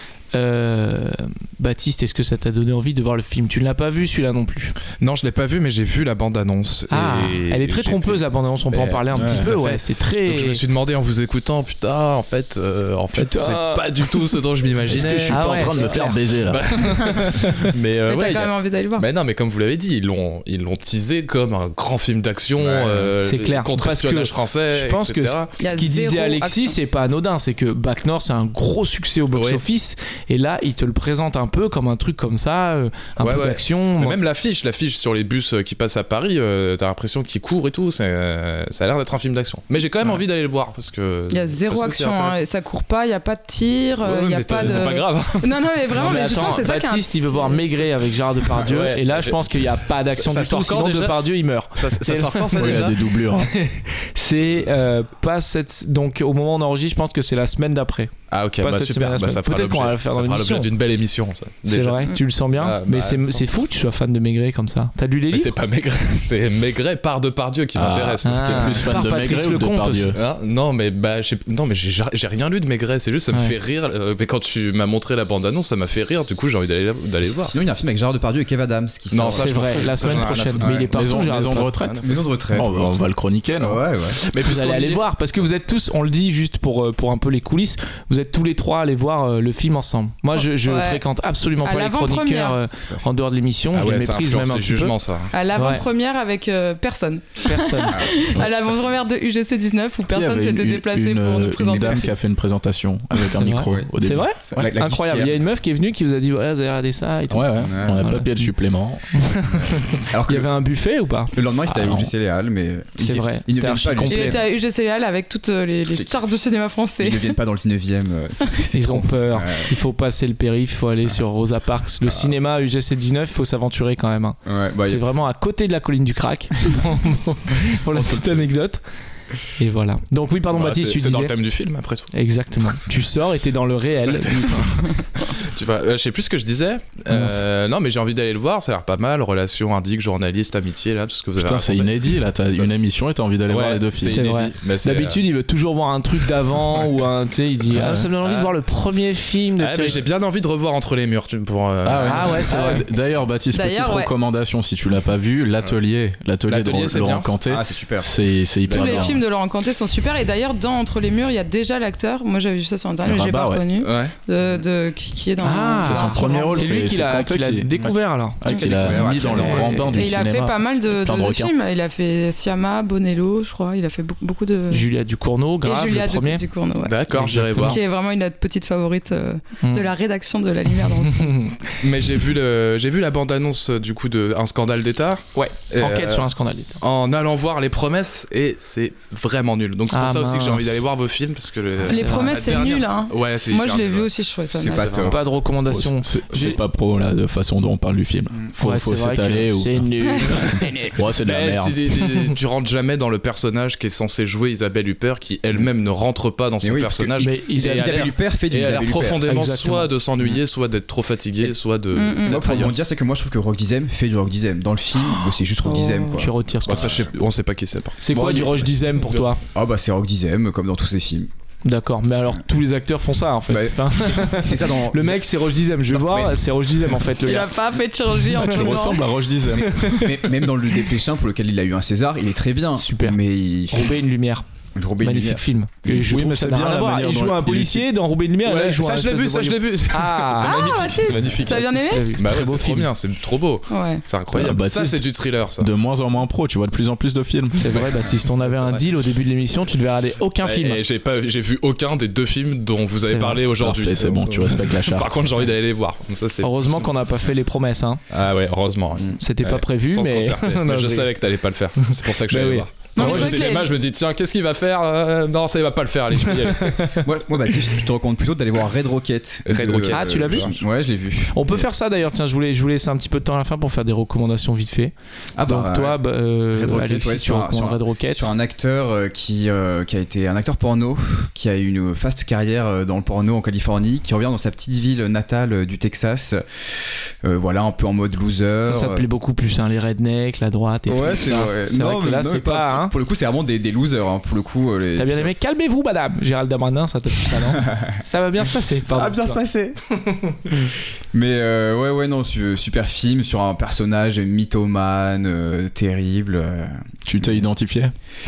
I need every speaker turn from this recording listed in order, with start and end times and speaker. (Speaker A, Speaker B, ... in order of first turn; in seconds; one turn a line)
Speaker A: 0.3-4.8
Speaker B: 5.0-25.5
Speaker A: 6.9-10.6
Speaker C: 9.1-9.5
Speaker A: 13.2-13.8
Speaker C: 13.3-13.6
Speaker C: 14.9-17.0
Speaker A: 14.9-16.3
Speaker A: 16.9-17.5
Speaker D: 18.1-19.1
Speaker E: 22.6-23.1
Speaker A: 23.2-34.2
Speaker D: 25.6-26.8
Speaker B: 29.3-29.6
Speaker B: 33.2-42.4
Speaker D: 41.3-47.8
Speaker B: 44.0-46.5
Speaker A: 46.0-60.7
Speaker B: 48.5-52.9
Speaker C: 52.5-53.5
Speaker B: 58.3-63.5
Speaker A: 61.7-65.5
Speaker B: 65.3-68.9
Speaker C: 67.8-70.2
Speaker A: 68.2-70.2
Speaker B: 70.1-77.6
Speaker E: 77.2-80.9
Speaker B: 79.1-82.2
Speaker A: 79.4-81.7
Speaker C: 80.9-82.0
Speaker E: 82.0-83.0
Speaker C: 82.5-83.8
Speaker E: 83.6-84.2
Speaker B: 84.2-85.0
Speaker A: 84.4-95.0
Speaker D: 90.5-91.0
Speaker D: 91.6-92.6
Speaker E: 92.8-93.0
Speaker B: 93.7-95.3
Speaker D: 95.3-102.0
Speaker A: 95.5-95.8
Speaker A: 97.4-98.1
Speaker E: 97.9-98.8
Speaker C: 100.1-104.4
Speaker A: 103.4-108.5
Speaker E: 103.5-105.4
Speaker C: 107.3-109.3
Speaker E: 107.6-108.1
Speaker A: 109.1-112.1
Speaker E: 109.5-110.5
Speaker E: 111.3-114.5
Speaker A: 113.0-114.4
Speaker D: 114.1-117.4
Speaker E: 115.9-116.2
Speaker E: 117.0-119.7
Speaker A: 118.7-128.8
Speaker E: 122.0-122.3
Speaker E: 124.5-125.0
Speaker A: 129.6-131.3
Speaker B: 130.5-132.1
Speaker A: 132.1-134.9
Speaker B: 134.1-142.7
Speaker A: 137.1-137.4
Speaker C: 141.4-144.2
Speaker B: 143.5-145.2
Speaker A: 144.1-150.0
Speaker C: 147.7-148.1
Speaker B: 148.2-148.5
Speaker B: 149.6-152.6
Speaker C: 151.8-159.2
Speaker A: 152.0-152.8
Speaker D: 153.5-154.1
Speaker B: 156.4-157.3
Speaker E: 157.5-159.2
Speaker D: 158.7-166.8
Speaker C: 163.0-163.7
Speaker B: 163.8-164.2
Speaker A: 165.4-170.1
Speaker C: 165.8-171.5
Speaker D: 168.4-174.9
Speaker E: 168.4-169.9
Speaker A: 174.7-176.4
Speaker D: 175.6-177.0
Speaker B: 176.9-177.8
Speaker A: 177.1-177.8
Speaker D: 177.6-181.5
Speaker A: 179.6-179.9
Speaker A: 181.1-181.7
Speaker B: 181.8-186.3
Speaker A: 185.3-186.8
Speaker B: 186.8-194.1
Speaker A: 189.9-190.8
Speaker A: 191.8-192.6
Speaker D: 191.9-195.1
Speaker E: 194.5-195.2
Speaker B: 194.7-195.2
Speaker A: 195.0-196.6
Speaker C: 195.7-199.9
Speaker A: 198.6-202.3
Speaker C: 200.9-201.8
Speaker B: 201.2-212.8
Speaker E: 206.6-209.2
Speaker A: 207.2-208.0
Speaker A: 209.3-209.9
Speaker D: 211.9-212.5
Speaker E: 212.3-217.1
Speaker A: 212.3-212.7
Speaker D: 215.2-216.2
Speaker A: 216.1-216.9
Speaker B: 216.7-219.3
Speaker A: 218.0-219.4
Speaker E: 219.5-221.3
Speaker A: 221.6-227.5
Speaker E: 223.5-227.1
Speaker D: 227.2-229.1
Speaker C: 228.3-230.0
Speaker A: 228.4-228.7
Speaker E: 229.5-234.0
Speaker A: 229.6-230.4
Speaker A: 232.8-233.2
Speaker A: 233.7-234.4
Speaker E: 234.8-235.4
Speaker A: 235.0-242.9
Speaker C: 235.9-237.9
Speaker B: 238.4-245.7
Speaker D: 240.4-242.1
Speaker D: 243.7-244.0
Speaker C: 244.3-247.7
Speaker A: 247.6-250.8
Speaker B: 247.7-249.0
Speaker B: 250.4-256.9
Speaker A: 253.1-253.4
Speaker C: 253.6-255.1
Speaker A: 256.4-258.0
Speaker B: 258.1-267.0
Speaker A: 259.2-261.2
Speaker A: 262.3-263.4
Speaker D: 262.9-263.7
Speaker A: 266.3-267.0
Speaker E: 267.0-271.7
Speaker B: 269.5-270.6
Speaker A: 269.9-270.6
Speaker A: 271.3-274.9
Speaker E: 275.4-289.1
Speaker A: 275.5-278.3
Speaker A: 288.6-292.9
Speaker E: 290.9-295.3
Speaker A: 295.0-299.4
Speaker E: 297.3-298.0
Speaker E: 298.9-299.8
Speaker E: 300.5-307.5
Speaker C: 307.1-307.9